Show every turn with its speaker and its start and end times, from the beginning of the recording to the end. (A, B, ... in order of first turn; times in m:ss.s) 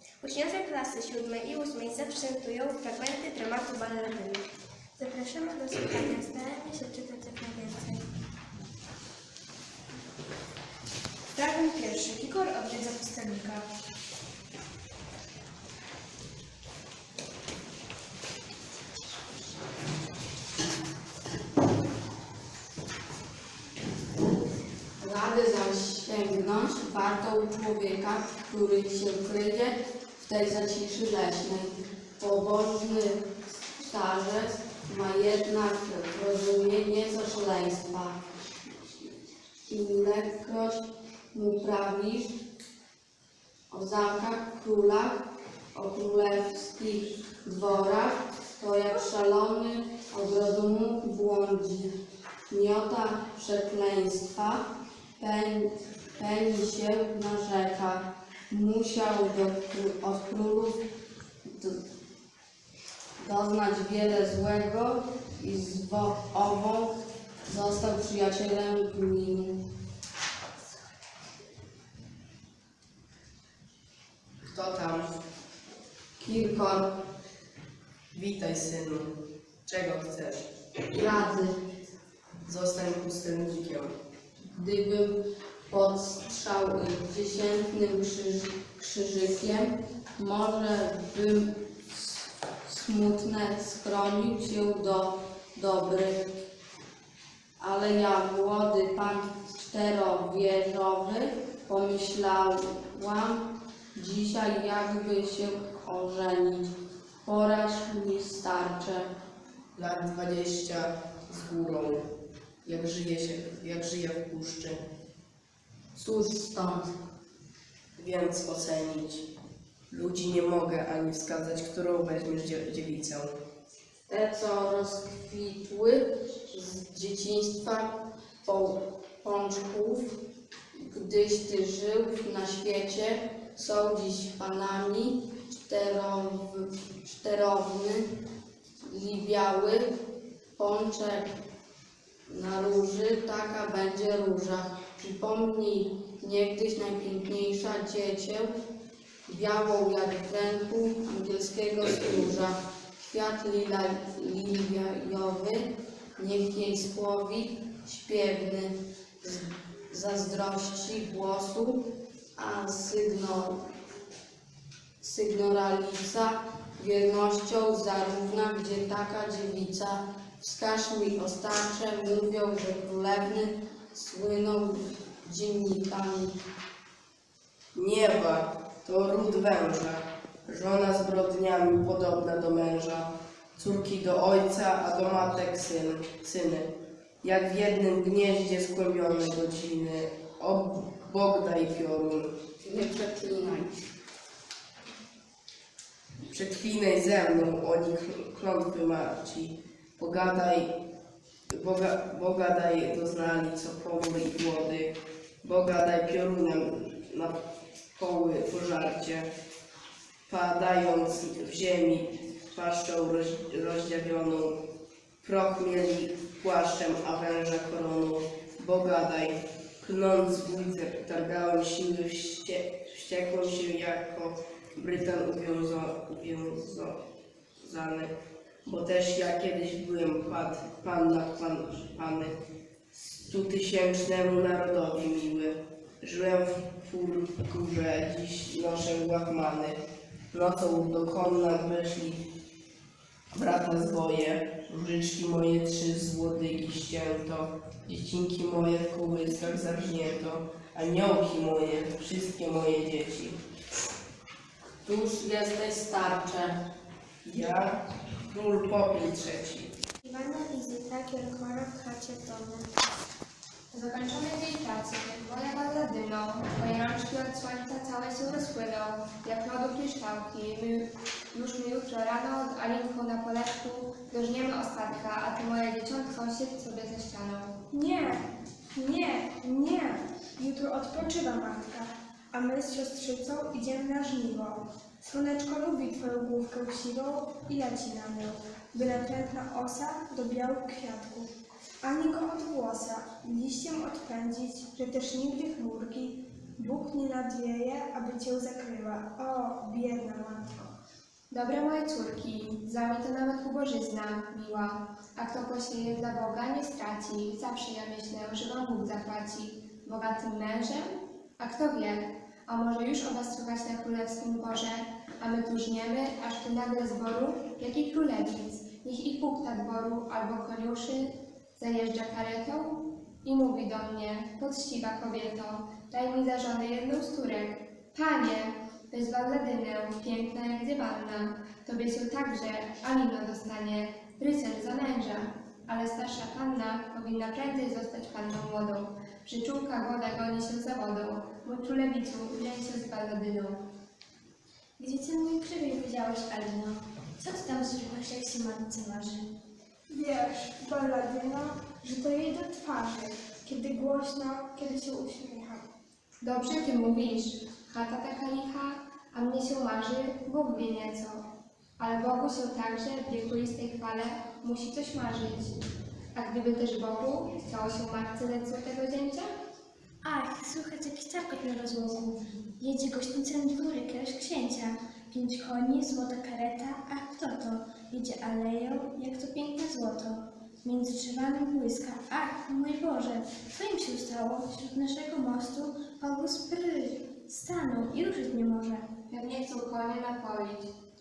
0:00.2-0:04.5 A
0:05.0-0:08.0 B
0:11.3-0:13.6 B
0:25.0-0:38.2 C
0:39.7-0:42.4 C
0:43.7-0:45.2 C
0:45.7-0:51.9 C
0:52.5-1:00.8 C
1:01.4-1:01.8 C
1:03.2-1:09.6 C
1:14.5-1:15.1 D
1:16.2-1:16.9 C
1:18.1-1:19.1 D
1:19.7-1:20.4 D
1:20.9-1:21.6 C
1:22.4-1:23.9 D
1:24.5-1:36.4 C
1:37.6-1:46.7 C
1:47.2-1:49.1 C
1:49.8-1:52.1 D
1:52.6-1:54.8 D
1:56.0-1:57.0 C
1:58.0-1:59.3 D
1:59.9-2:03.3 D
2:04.1-2:10.2 C
2:10.7-2:18.1 C
2:18.8-2:19.9 C
2:20.6-2:21.3 C
2:22.3-2:28.5 C
2:29.3-2:41.8 C
2:42.4-2:43.6 C
2:45.0-2:56.3 C
2:57.7-3:06.7 D
3:07.2-3:12.3 D
3:12.6-3:13.8 C
3:16.3-3:20.7 D
3:21.5-3:27.4 D
3:27.9-3:29.3 D
3:30.3-3:34.6 D
3:35.2-3:47.0 D
3:47.6-3:48.1 D
3:48.6-3:52.4 D
3:52.9-3:59.8 D
4:00.3-4:02.2 D
4:03.3-4:13.4 D
4:14.8-4:16.6 C
4:17.2-4:19.7 D
4:20.0-4:22.7 B
4:23.7-4:37.6 E
4:37.7-5:00.6 F
5:01.3-5:43.6 E
5:44.8-5:49.3 B
5:49.9-5:55.7 F
5:56.2-6:01.2 E
6:01.8-6:05.5 E
6:06.1-6:09.3 E
6:10.0-6:28.9 B
6:29.1-6:30.7 E